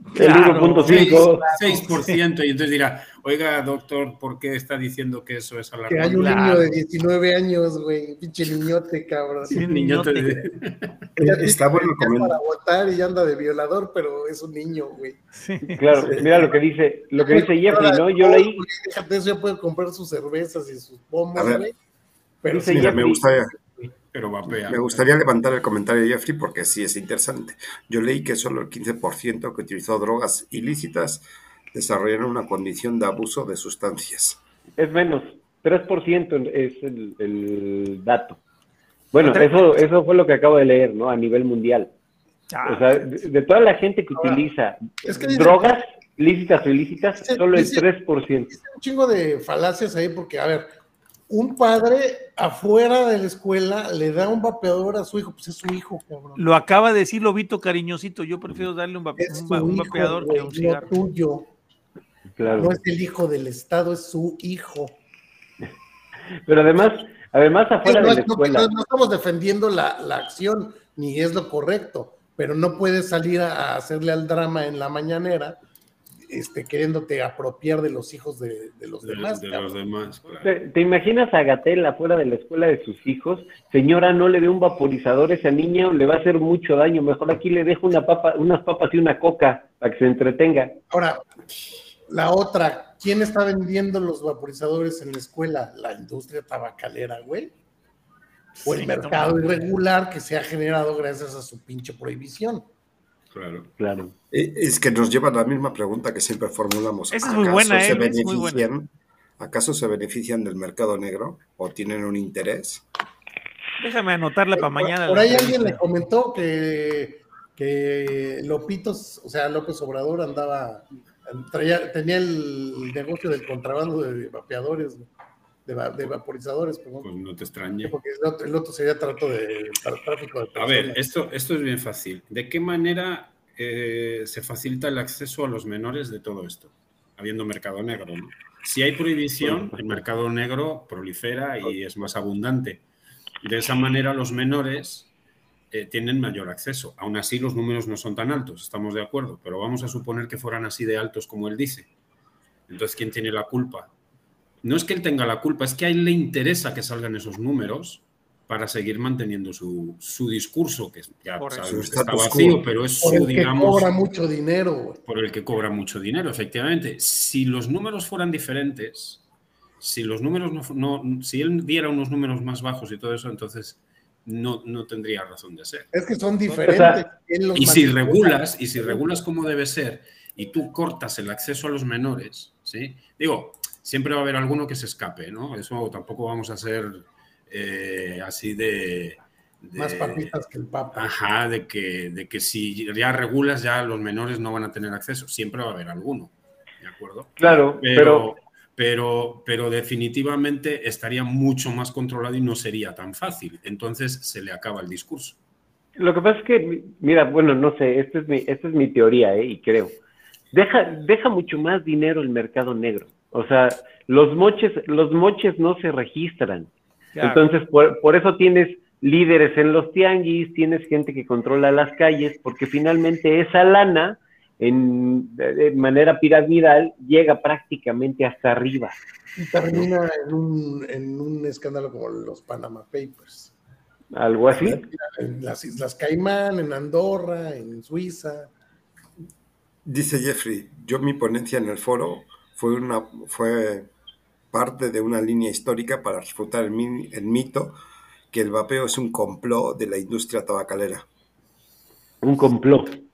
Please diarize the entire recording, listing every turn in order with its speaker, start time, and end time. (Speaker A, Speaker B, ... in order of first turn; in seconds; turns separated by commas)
Speaker A: 0.1-0.8, Speaker B: 0.1-1.5, Speaker C: 0.8-2.1, Speaker D: 0.8-6.7, Speaker C: 5.9-9.7, Speaker A: 6.2-6.5, Speaker A: 9.5-10.3, Speaker D: 9.6-11.1, Speaker E: 11.2-12.4, Speaker C: 11.2-15.2, Speaker A: 15.3-15.8, Speaker B: 15.7-18.6, Speaker E: 16.1-16.4, Speaker C: 17.1-21.7, Speaker E: 21.3-21.7, Speaker C: 22.4-23.9, Speaker B: 22.5-23.2, Speaker E: 22.6-23.5, Speaker D: 24.1-25.0, Speaker E: 24.6-34.4, Speaker B: 34.8-38.4, Speaker B: 39.1-41.9, Speaker A: 39.2-39.9, Speaker A: 42.5-43.1, Speaker B: 42.6-48.5, Speaker C: 45.0-45.8, Speaker C: 47.2-47.8, Speaker C: 48.5-50.7, Speaker C: 51.3-56.4, Speaker A: 56.4-60.9, Speaker C: 59.2-61.5, Speaker B: 62.4-62.7, Speaker C: 62.5-65.0, Speaker B: 66.5-68.7, Speaker C: 67.8-75.6, Speaker C: 76.3-79.7, Speaker D: 79.0-80.5, Speaker B: 80.4-90.8, Speaker C: 90.9-91.2, Speaker C: 92.1-97.5, Speaker A: 98.5-99.3, Speaker C: 98.7-102.7, Speaker D: 103.3-103.7, Speaker B: 103.8-104.1, Speaker E: 104.3-112.8, Speaker A: 107.1-108.7, Speaker A: 113.8-115.8, Speaker C: 114.5-125.1, Speaker C: 125.7-127.1, Speaker D: 127.0-128.0, Speaker C: 127.8-131.0, Speaker D: 130.5-142.8, Speaker D: 143.4-145.1, Speaker D: 145.7-151.9, Speaker D: 152.7-153.9, Speaker D: 154.6-163.9, Speaker A: 161.4-161.7, Speaker E: 161.7-162.8, Speaker C: 163.0-165.0, Speaker D: 165.1-169.2, Speaker D: 169.8-175.9, Speaker C: 175.9-179.0, Speaker B: 176.6-177.0, Speaker D: 177.5-190.3, Speaker C: 189.8-191.1, Speaker D: 190.9-205.4, Speaker B: 197.4-198.3, Speaker B: 206.0-210.0, Speaker B: 210.5-216.7, Speaker A: 217.2-217.4, Speaker B: 217.2-228.9, Speaker C: 229.4-233.5, Speaker B: 234.1-234.8, Speaker C: 234.6-238.5, Speaker E: 239.8-243.9, Speaker E: 244.5-247.8, Speaker E: 248.3-251.1, Speaker B: 252.2-253.0